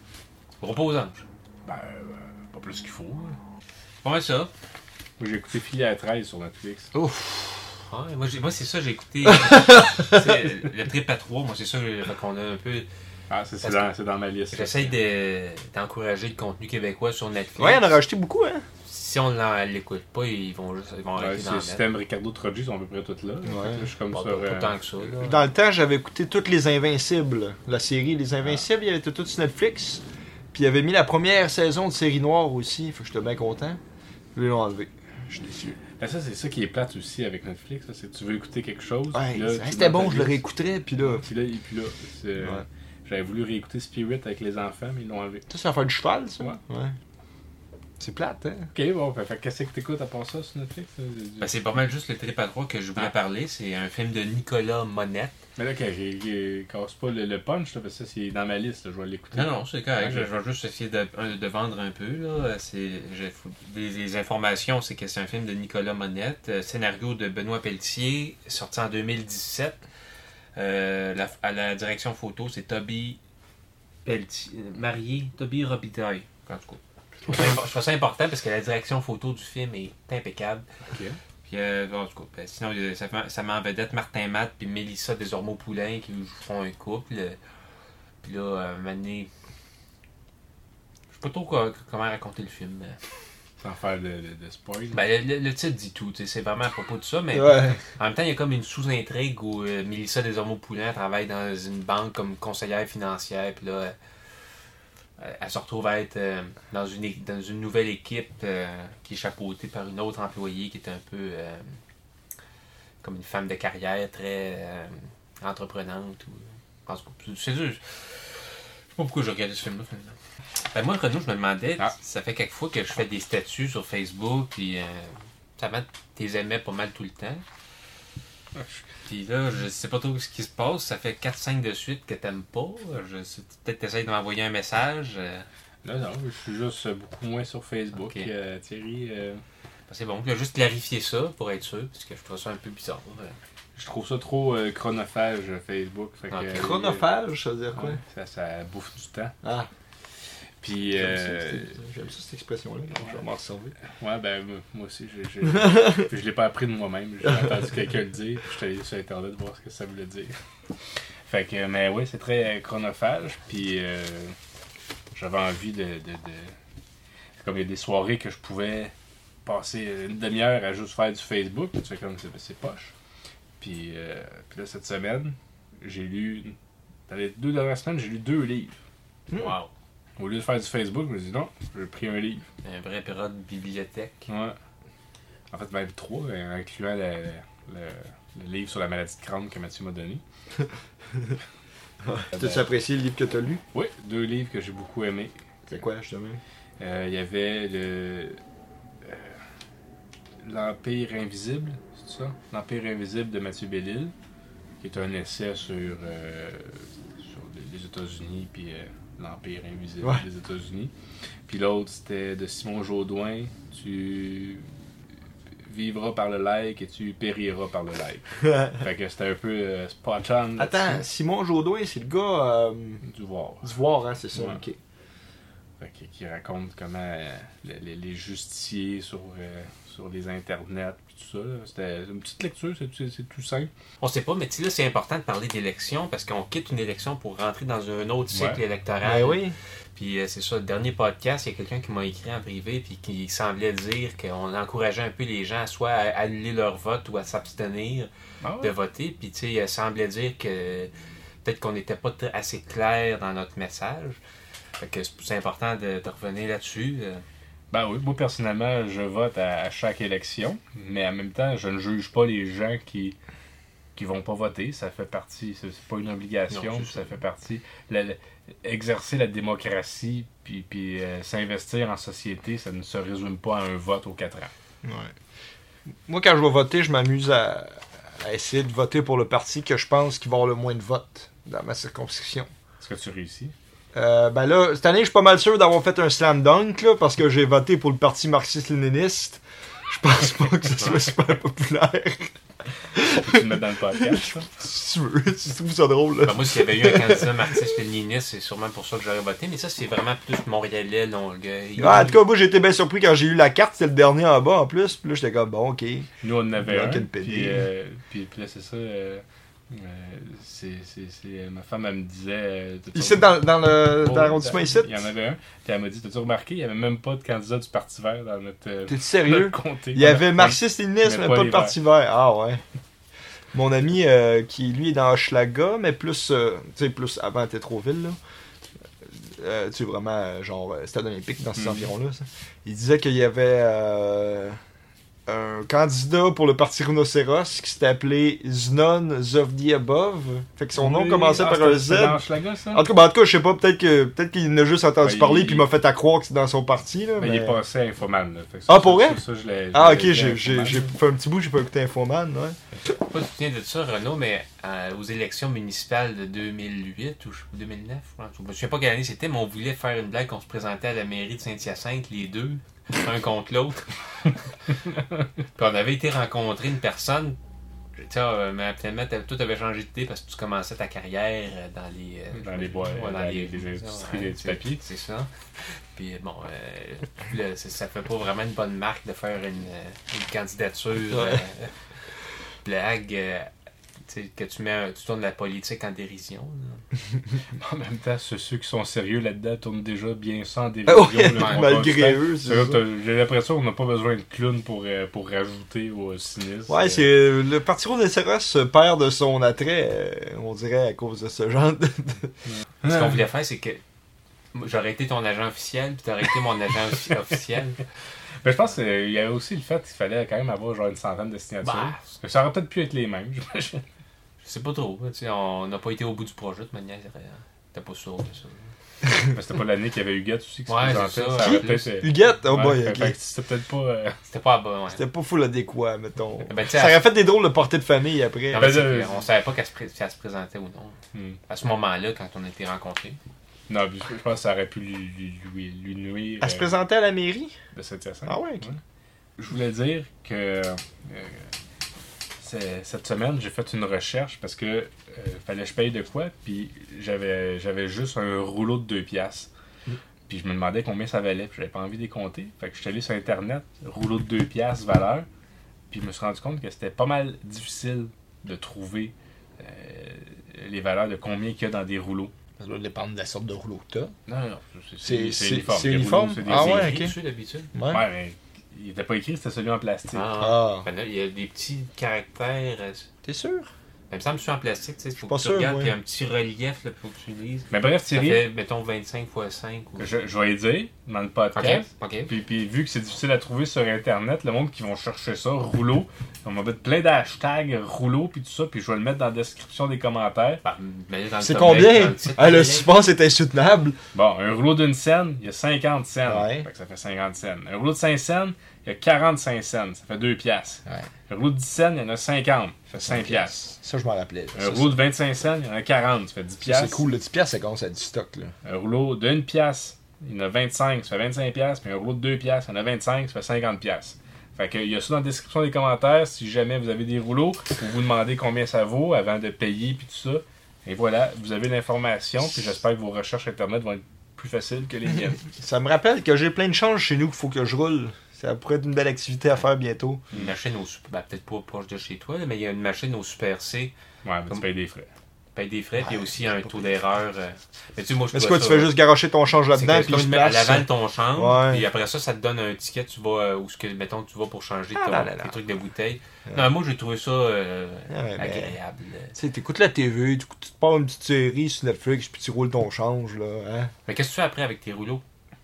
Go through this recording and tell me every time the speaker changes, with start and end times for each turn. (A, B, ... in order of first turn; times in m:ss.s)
0:00.6-0:01.2 A
0:01.6-0:03.4 B
0:04.0-0:04.5 A
0:05.2-0:06.9 B
0:06.9-0:07.5 C
0:07.9-0:12.9 A
0:09.2-0:09.9 C
0:13.3-0:15.0 B
0:13.6-0:13.9 A
0:14.5-0:18.0 A
0:17.6-0:18.6 C
0:18.8-0:21.8 A
0:21.2-0:24.8 B
0:23.4-0:23.9 C
0:24.1-0:25.4 A
0:25.2-0:33.8 C
0:34.3-0:35.8 C
0:36.0-0:40.4 B
0:39.1-0:41.2 C
0:41.0-0:45.4 B
0:42.4-0:42.6 C
0:45.5-0:46.9 C
0:48.0-0:48.7 C
0:48.7-0:51.6 B
0:51.4-0:55.4 A
0:55.6-1:00.3 B
0:59.3-1:09.8 A
1:10.6-1:13.2 A
1:14.0-1:20.7 A
1:20.8-1:21.2 B
1:21.4-1:27.4 A
1:28.2-1:29.3 A
1:31.1-1:33.0 A
1:33.6-1:35.0 B
1:34.9-1:44.0 A
1:37.3-1:37.8 C
1:45.2-1:51.6 A
1:53.0-1:58.4 A
1:59.0-2:00.2 A
2:00.7-2:07.4 A
2:08.6-2:08.8 B
2:09.0-2:15.5 A
2:15.8-2:19.4 B
2:17.9-2:18.3 A
2:19.9-2:23.4 A
2:23.8-2:27.1 B
2:26.3-2:26.6 A
2:26.5-2:28.0 C
2:27.7-2:29.3 B
2:29.4-2:29.7 C
2:30.6-2:31.8 B
2:30.9-2:33.7 C
2:34.0-2:40.4 B
2:35.4-2:35.9 C
2:41.3-2:44.3 B
2:45.1-2:46.5 B
2:47.4-2:48.9 B
2:49.4-2:52.9 B
2:53.6-2:56.5 B
2:57.1-2:58.7 B
2:59.3-2:59.7 A
3:00.2-3:02.4 B
3:02.6-3:04.3 A
3:04.3-3:04.6 B
3:05.5-3:10.2 B
3:12.0-3:13.6 C
3:12.4-3:12.6 B
3:13.7-3:15.3 B
3:15.6-3:16.4 C
3:16.8-3:18.4 B
3:19.0-3:19.3 B
3:20.4-3:24.1 B
3:24.8-3:30.9 B
3:31.5-3:34.6 B
3:35.6-3:41.0 B
3:40.6-3:43.0 C
3:43.0-3:43.8 B
3:43.6-3:44.8 C
3:44.3-3:44.6 B
3:45.8-3:53.7 B
3:54.0-4:10.9 A
3:58.3-3:58.6 B
3:59.0-3:59.5 C
4:08.4-4:08.7 B
4:11.4-4:14.2 A
4:14.8-4:17.2 A
4:17.7-4:23.2 B
4:24.0-4:34.5 B
4:26.5-4:27.2 A
4:34.8-4:35.1 C
4:36.1-4:42.5 C
4:42.8-4:43.5 B
4:43.9-4:52.3 C
4:50.8-4:51.1 A
4:52.9-4:57.6 C
4:53.0-4:54.5 B
4:56.2-5:02.2 A
5:01.8-5:07.7 C
5:06.2-5:21.8 B
5:12.9-5:15.0 C
5:18.9-5:22.6 C
5:23.5-5:28.2 C
5:29.1-5:34.6 C
5:31.6-5:31.9 B
5:35.3-5:47.6 C
5:40.8-5:42.8 B
5:45.0-5:45.7 B
5:47.2-5:50.9 B
5:48.7-5:49.2 C
5:49.7-5:52.9 C
5:53.1-6:03.9 A
6:05.5-6:07.4 A
6:08.0-6:15.3 A
6:12.3-6:14.8 B
6:15.9-6:21.7 A
6:21.1-6:21.4 C
6:22.6-6:23.5 A
6:24.0-6:26.8 A
6:27.6-6:37.1 B
6:30.8-6:32.8 C
6:31.3-6:31.8 A
6:36.7-6:42.3 C
6:42.8-6:43.8 A
6:44.5-6:47.8 A
6:48.4-6:53.8 B
6:51.6-6:52.2 A
6:54.4-6:58.7 A
6:59.1-7:04.2 B
7:00.7-7:01.9 A
7:01.4-7:03.2 C
7:04.2-7:05.0 A
7:04.9-7:08.7 C
7:06.4-7:07.1 A
7:08.5-7:09.2 B
7:08.5-7:13.2 A
7:11.1-7:11.4 B
7:13.7-7:16.8 B
7:16.4-7:17.6 C
7:17.7-7:18.8 B
7:18.3-7:18.7 C
7:19.4-7:21.5 B
7:22.4-7:29.5 B
7:30.3-7:35.2 B
7:35.9-7:42.3 B
7:42.6-7:44.1 C
7:44.3-7:47.0 B
7:45.0-7:47.1 C
7:46.4-7:47.7 A
7:47.7-7:48.0 C
7:47.8-7:50.3 B
7:50.1-7:53.1 A
7:50.4-7:50.9 C
7:53.2-7:53.7 C
7:54.1-8:00.1 A
7:55.2-7:55.9 C
7:57.7-7:58.5 B
8:00.0-8:10.6 B
8:01.5-8:02.3 A
8:10.6-8:12.9 A
8:11.4-8:14.0 C
8:14.1-8:23.7 B
8:16.2-8:16.7 C
8:22.9-8:24.9 C
8:24.5-8:27.1 B
8:26.6-8:28.5 C
8:28.6-8:45.4 B
8:45.5-8:50.2 C
8:50.3-8:53.9 A
8:54.2-8:55.1 B
8:55.5-8:59.0 A
8:56.0-8:56.9 C
8:58.3-9:01.9 C
8:59.7-9:09.3 A
9:04.9-9:05.6 C
9:08.1-9:08.7 C
9:09.3-9:13.9 C
9:14.0-9:15.2 A